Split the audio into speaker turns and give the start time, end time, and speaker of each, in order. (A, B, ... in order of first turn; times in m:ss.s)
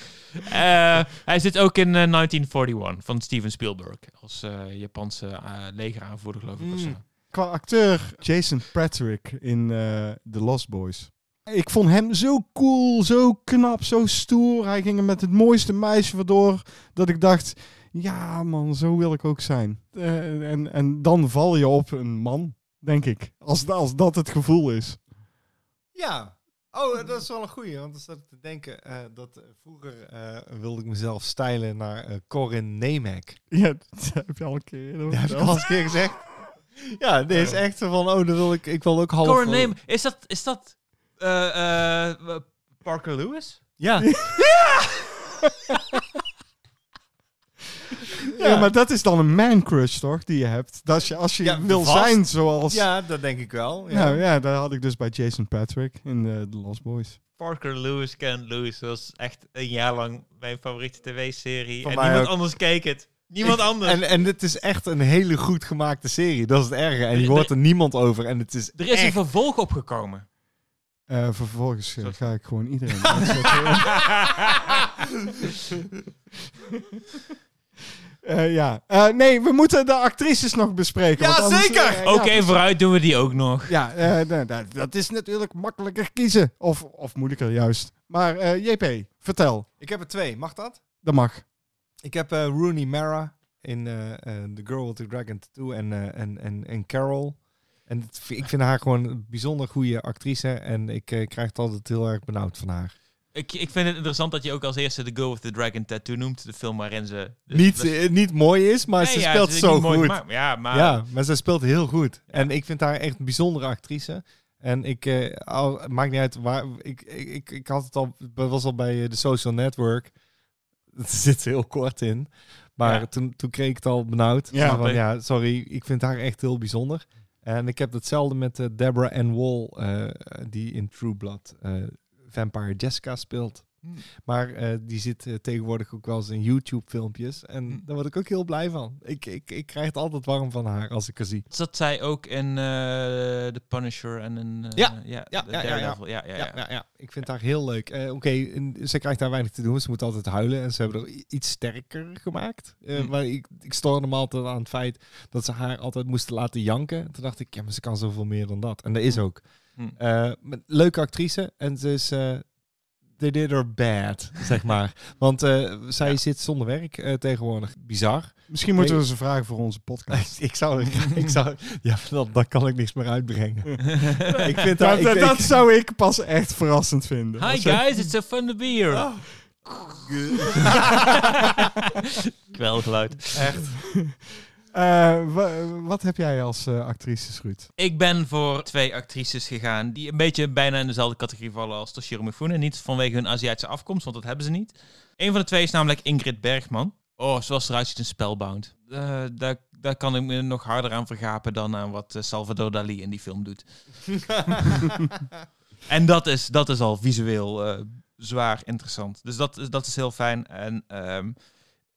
0:00.4-0:07.0 A
0:06.6-0:07.0 B
0:07.3-0:25.0 C
0:25.9-0:33.4 B
0:33.5-0:36.2 C
0:35.1-0:39.7 B
0:39.2-0:43.7 A
0:43.8-0:44.8 B
0:44.0-0:44.4 C
0:48.4-0:48.7 B
0:48.4-0:52.9 C
0:51.4-0:54.2 B
0:53.9-0:57.2 C
0:57.4-1:04.0 A
1:01.8-1:02.7 B
1:03.4-1:09.2 B
1:07.1-1:07.5 A
1:08.8-1:10.2 A
1:11.1-1:14.2 C
1:12.0-1:14.6 A
1:13.2-1:13.9 B
1:18.2-1:22.7 C
1:21.2-1:22.1 B
1:22.0-1:23.8 A
1:23.7-1:29.7 C
1:29.8-1:30.8 B
1:31.0-1:31.4 C
1:32.0-1:43.0 B
1:43.3-1:48.0 A
1:47.5-2:00.2 B
1:49.0-1:51.0 A
2:00.9-2:21.5 B
2:02.8-2:03.1 A
2:04.5-2:04.8 C
2:04.6-2:05.0 A
2:21.5-2:26.6 A
2:24.8-2:49.4 B
2:39.1-2:40.0 A
2:48.5-2:50.5 C
2:50.1-2:55.6 B
2:54.0-2:54.4 A
2:54.2-2:57.9 C
2:57.4-2:59.6 A
2:58.9-2:59.3 B
3:00.0-3:01.1 B
3:00.9-3:02.0 A
3:02.5-3:03.4 A
3:03.3-3:03.8 B
3:04.7-3:07.7 C
3:07.8-3:24.9 A
3:24.3-3:24.6 B
3:25.9-3:31.4 A